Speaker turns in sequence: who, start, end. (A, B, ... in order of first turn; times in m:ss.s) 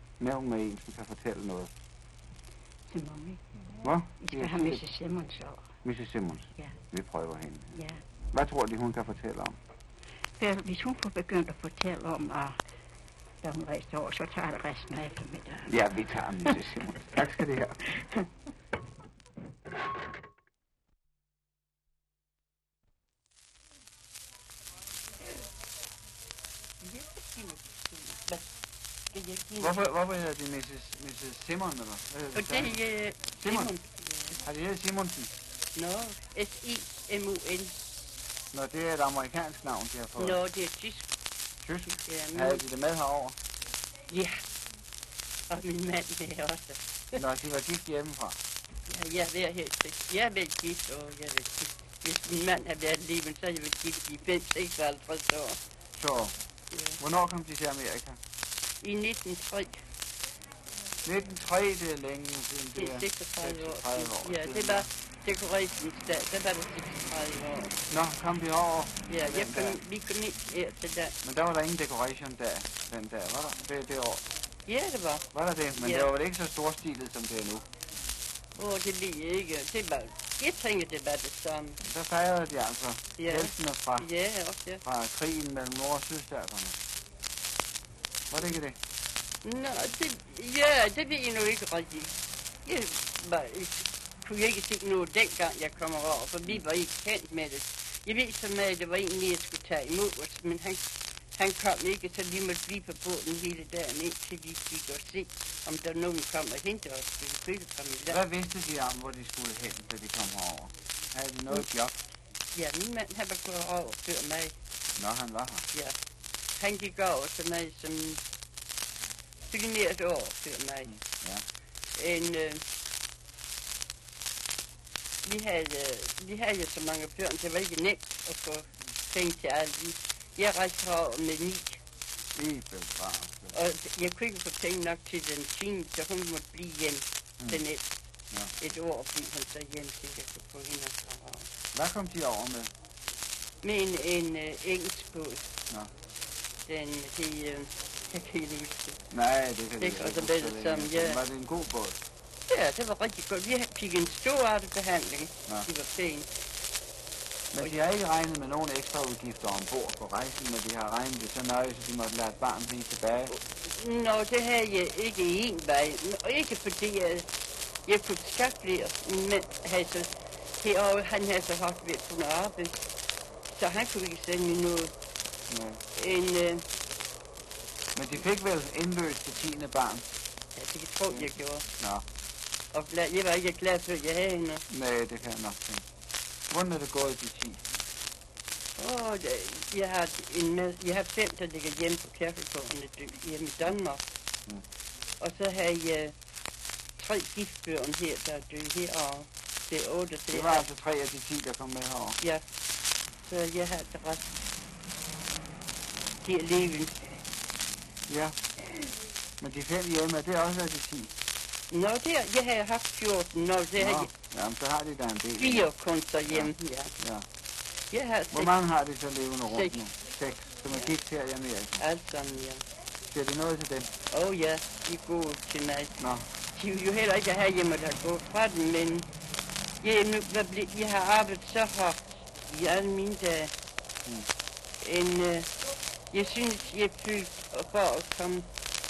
0:00.2-0:01.7 A
0:02.9-0:03.4 B
0:03.8-0:04.8 A
0:04.2-0:05.7 B
0:05.8-0:07.7 A
0:07.8-0:08.0 B
0:08.3-0:09.6 A
0:10.4-0:12.6 B
0:13.4-0:15.7 B
0:15.7-0:17.8 A
0:26.8-0:28.5 C
0:29.1-0:29.8 C
0:29.6-0:32.8 A
0:32.3-0:34.4 C
0:33.4-0:33.7 A
0:34.4-0:35.3 A
0:35.8-0:37.7 C
0:38.5-0:40.4 A
0:40.2-0:41.1 C
0:41.6-0:43.4 A
0:42.0-0:42.6 C
0:44.1-0:44.4 C
0:45.5-0:47.2 C
0:47.1-0:48.4 A
0:48.9-0:55.6 C
0:56.0-0:56.3 A
0:56.7-0:57.0 C
0:57.0-0:58.2 A
0:58.8-0:59.8 C
1:01.0-1:04.9 A
1:02.8-1:07.8 C
1:07.9-1:09.8 A
1:09.1-1:11.2 C
1:11.2-1:14.3 A
1:14.7-1:16.1 C
1:15.3-1:17.6 A
1:18.5-1:21.8 C
1:21.8-1:24.1 A
1:23.2-1:24.8 C
1:24.8-1:26.8 A
1:28.3-1:28.8 A
1:29.4-1:32.1 C
1:32.6-1:40.8 C
1:41.4-1:48.2 C
1:48.1-1:52.0 A
1:52.5-1:54.5 C
1:55.0-1:55.6 A
1:56.6-1:58.2 C
1:59.5-2:01.0 C
2:00.9-2:01.4 A
2:02.0-2:02.6 C
2:05.2-2:11.8 C
2:12.4-2:13.5 A
2:13.5-2:17.8 C
2:18.6-2:21.5 C
2:21.7-2:22.7 A
2:23.6-2:25.5 C
2:26.7-2:29.0 C
2:29.1-2:32.0 A
2:29.8-2:31.2 C
2:32.5-2:36.3 C
2:37.5-2:43.3 A
2:43.3-2:47.3 C
2:47.9-2:50.1 C
2:50.6-2:52.8 C
2:53.5-2:54.9 C
2:55.5-2:55.8 A
2:56.0-2:56.6 C
2:58.0-3:00.0 A
3:00.5-3:01.6 C
3:02.7-3:04.6 C
3:04.7-3:05.8 A
3:06.5-3:07.6 A
3:08.8-3:14.0 C
3:15.2-3:16.2 C
3:17.0-3:20.6 C
3:20.3-3:22.2 A
3:23.2-3:24.4 C
3:26.2-3:27.2 C
3:28.1-3:28.4 A
3:29.4-3:31.1 A
3:31.7-3:34.1 C
3:33.8-3:35.7 A
3:35.4-3:36.9 C
3:36.3-3:37.2 A
3:37.9-3:38.5 C
3:38.3-3:41.8 A
3:39.4-3:39.8 C
3:41.8-3:42.6 C
3:43.1-3:43.9 A
3:44.1-3:46.0 C
3:46.0-3:46.3 A
3:46.5-3:49.1 C
3:49.8-3:53.5 C
3:54.8-3:55.5 C
3:56.1-3:58.5 C